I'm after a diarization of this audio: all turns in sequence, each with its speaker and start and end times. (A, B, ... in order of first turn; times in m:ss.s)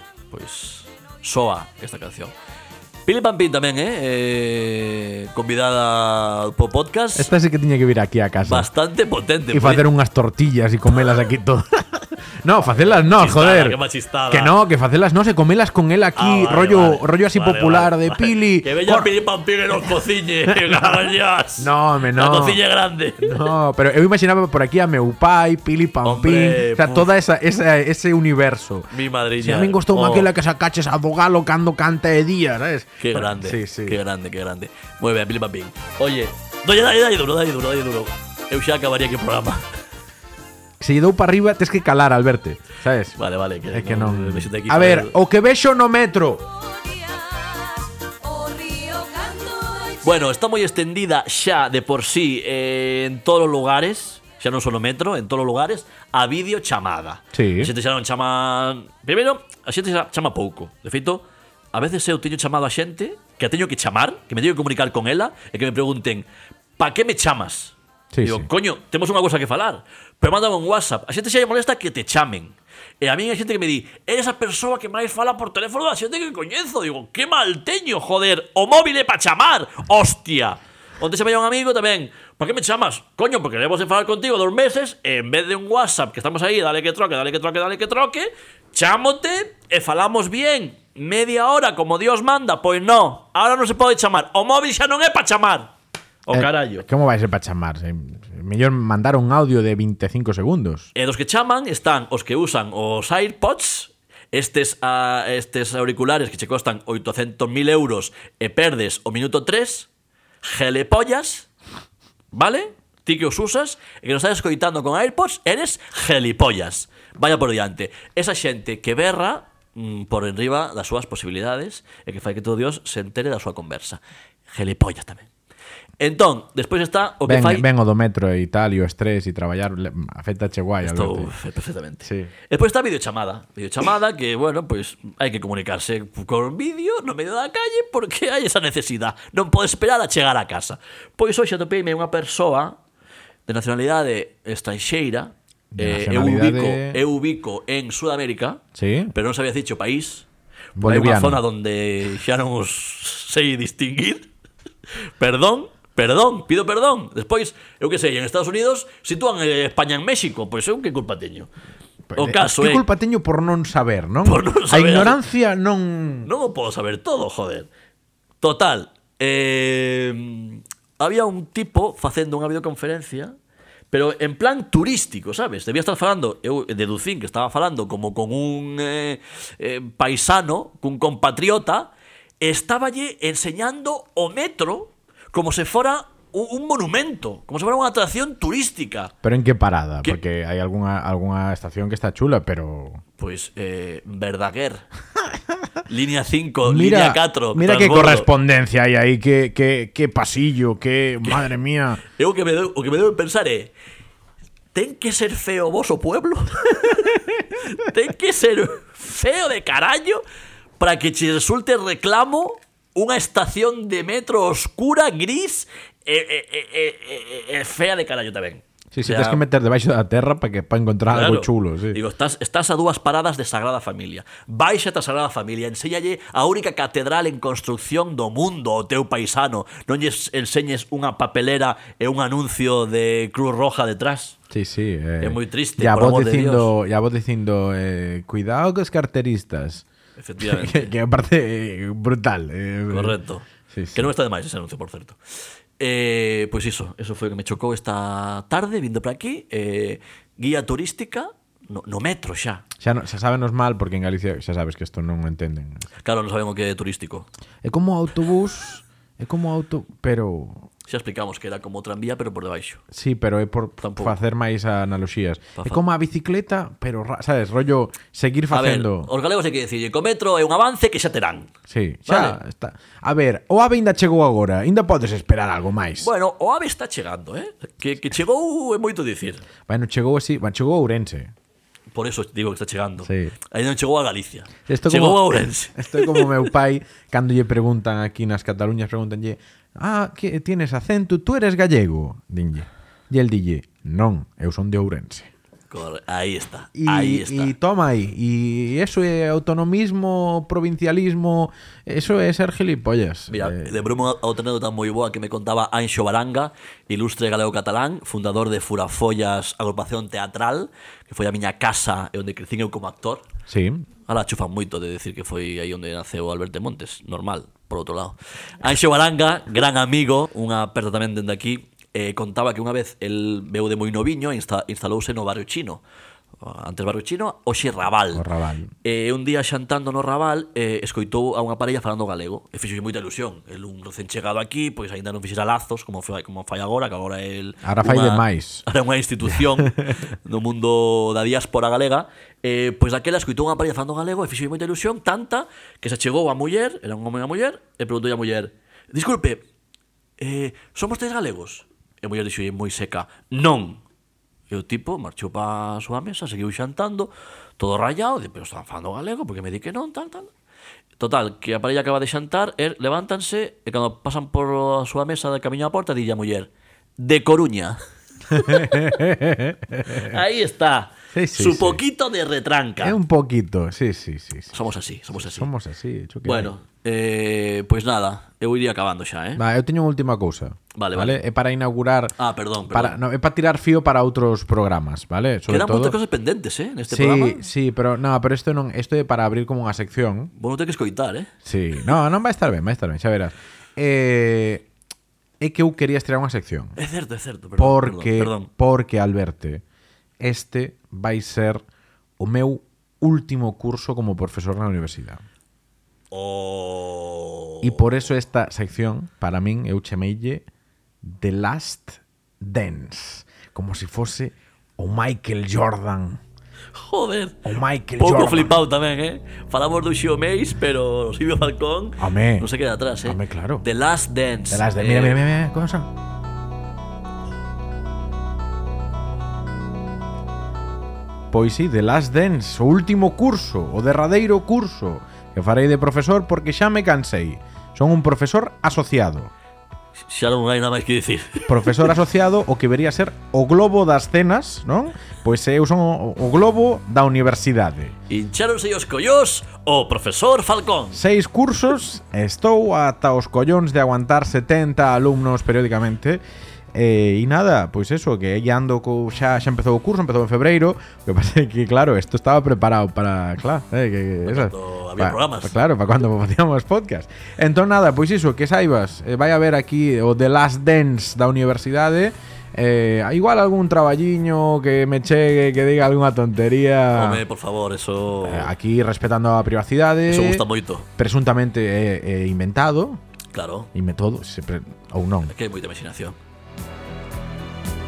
0:00.3-0:02.3 A
0:03.0-0:07.3 A
0:07.1-0:08.7 B
0:08.4-0:09.8 A
0:09.5-0:13.8 B
0:12.8-0:14.6 A
0:14.3-0:19.1 B
0:16.2-0:23.4 A
0:20.5-0:20.8 B
0:21.6-0:22.6 B
0:23.2-0:34.0 B
0:26.0-0:27.1 A
0:28.9-0:30.3 A
0:33.0-0:39.6 A
0:40.8-0:43.2 B
0:43.2-0:45.1 A
0:43.7-0:46.4 B
0:46.6-0:50.1 C
0:50.0-1:35.7 A
0:57.3-0:57.7 B
1:08.1-1:08.5 B
1:36.2-1:36.8 A
1:36.3-1:40.9 B
1:40.9-1:49.9 A
1:50.4-1:51.5 A
1:52.3-2:05.3 A
2:06.0-2:07.6 A
2:07.2-2:11.3 B
2:10.8-2:22.8 A
2:12.0-2:12.3 B
2:23.5-2:28.6 A
2:25.7-2:27.0 B
2:28.7-2:29.1 B
2:29.1-2:30.3 A
2:30.8-2:31.4 B
2:30.8-2:34.3 A
2:35.2-2:41.5 A
2:42.1-2:46.3 B
2:42.2-2:42.8 A
2:44.2-2:45.2 A
2:46.2-2:47.7 A
2:48.4-2:53.3 A
2:53.9-3:09.1 A
3:09.2-3:13.0 B
3:13.2-3:14.8 A
3:15.9-3:18.3 A
3:16.6-3:22.0 B
3:22.1-3:23.7 A
3:24.7-3:30.2 A
3:30.8-3:39.4 A
3:38.9-3:42.0 B
3:41.1-3:54.4 A
3:54.5-3:59.8 B
3:55.2-3:56.7 A
4:00.2-4:00.9 A
4:00.4-4:03.2 B
4:02.9-4:05.2 A
4:03.7-4:04.1 B
4:05.8-4:12.6 A
4:12.8-4:15.9 B
4:16.0-4:17.3 A
4:17.6-4:20.7 B
4:20.8-4:22.8 A
4:22.9-4:29.1 B
4:23.8-4:24.2 A
4:25.6-4:25.8 A
4:28.5-4:31.5 A
4:31.7-4:36.1 B
4:32.0-4:32.4 A
4:36.0-4:39.4 A
4:39.7-4:41.3 B
4:41.9-4:46.5 A
4:43.0-4:43.3 B
4:44.7-4:55.3 B
4:55.7-4:57.5 A
4:56.7-5:03.8 B
5:03.3-5:13.2 A
5:13.5-5:13.9 B
5:14.1-5:25.8 A
5:26.4-5:28.3 A
5:28.1-5:28.7 B
5:28.8-5:49.4 A
5:37.6-5:38.6 B
5:39.4-5:39.9 B
5:50.2-5:53.8 A
5:54.5-6:00.3 A
6:01.0-6:07.8 A
6:08.3-6:10.1 B
6:08.4-6:09.0 A
6:09.9-6:13.0 A
6:11.1-6:11.8 B
6:12.8-6:14.6 B
6:14.5-6:15.5 A
6:15.1-6:16.5 B
6:16.2-6:19.4 A
6:19.4-6:22.1 B
6:20.7-6:21.2 A
6:22.2-6:23.0 A
6:22.7-6:26.0 B
6:25.5-6:27.5 A
6:26.9-6:30.3 B
6:30.4-6:31.3 A
6:31.4-6:34.6 B
6:35.4-6:36.8 B
6:36.8-6:38.5 A
6:37.6-6:39.6 B
6:40.2-6:41.6 B
6:42.2-6:45.2 B
6:46.1-6:47.8 A
6:47.6-6:50.4 B
6:51.0-6:56.2 B
6:56.7-7:05.2 A
6:57.4-6:58.6 B
7:02.0-7:02.5 B
7:03.0-7:03.6 B
7:04.5-7:05.9 B
7:11.3-7:19.3 B
7:20.0-7:21.9 A
7:21.5-7:28.0 B
7:28.1-7:31.0 A
7:30.9-7:36.2 B
7:36.7-7:57.2 B
7:44.2-7:45.6 A
7:56.9-7:58.5 A
7:58.2-8:00.4 B
8:00.1-8:00.8 A
8:01.0-8:03.0 B
8:03.3-8:03.7 A
8:03.7-8:05.3 B
8:05.3-8:06.2 A